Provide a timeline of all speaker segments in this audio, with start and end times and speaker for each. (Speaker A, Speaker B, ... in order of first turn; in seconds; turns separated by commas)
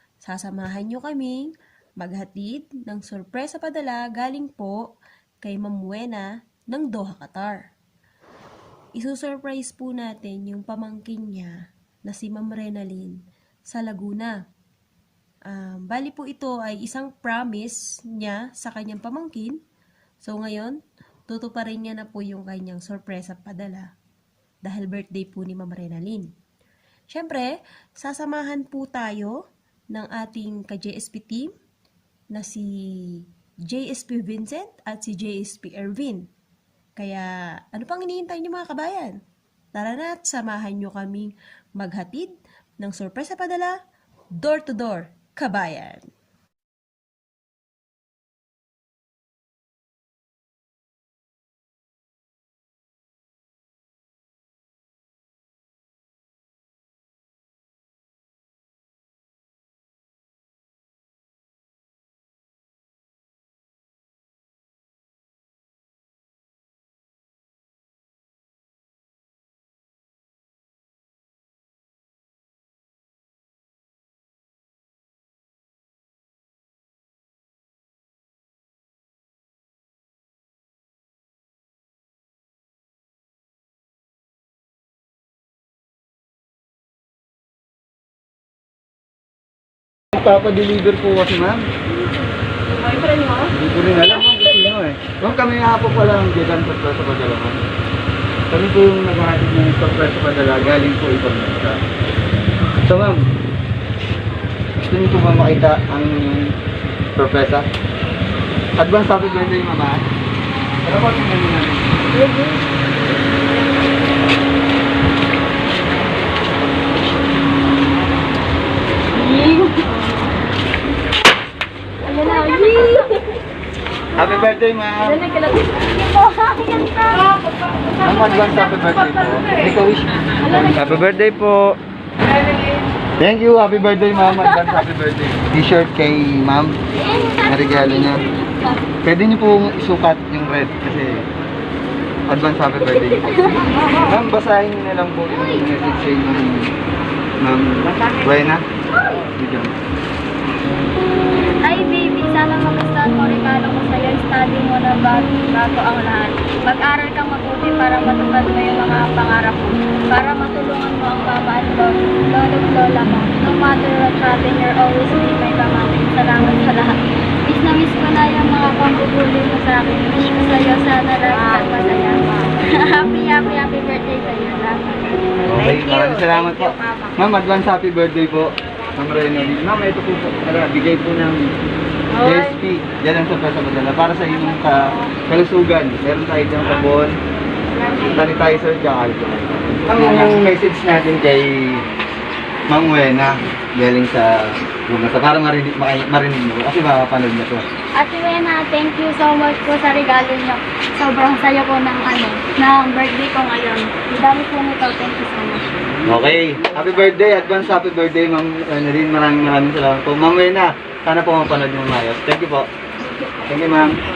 Speaker A: 0.2-4.9, Speaker A: 5.4-7.6, Speaker A: 9.0-13.2, Speaker A: 13.7-14.4, Speaker A: 15.5-19.6, Speaker A: 20.2-20.8, Speaker A: 21.3-23.9, Speaker A: 24.6-26.3, Speaker A: 27.1-29.4, Speaker A: 29.9-31.5, Speaker A: 32.3-36.2, Speaker A: 37.0-39.2, Speaker A: 39.8-43.8, Speaker A: 44.4-46.1, Speaker B: 90.1-91.6, Speaker B: 93.0-97.6, Speaker B: 98.5-101.8, Speaker B: 102.9-103.2, Speaker B: 104.8-106.5, Speaker B: 107.2-107.7, Speaker B: 108.8-110.0, Speaker B: 110.8-111.9, Speaker C: 112.2-112.5, Speaker C: 119.2-119.9, Speaker C: 122.1-123.3, Speaker B: 124.2-125.3, Speaker C: 125.3-127.2, Speaker B: 128.0-131.8, Speaker B: 133.2-136.8, Speaker B: 137.4-138.2, Speaker B: 139.0-141.3, Speaker B: 142.3-146.7, Speaker B: 147.4-149.8, Speaker C: 151.6-177.2, Speaker B: 175.5-181.6, Speaker C: 182.1-182.6, Speaker B: 182.2-187.2, Speaker B: 188.0-191.8, Speaker B: 192.7-197.7, Speaker C: 198.0-205.7, Speaker B: 206.1-212.7, Speaker B: 213.5-214.0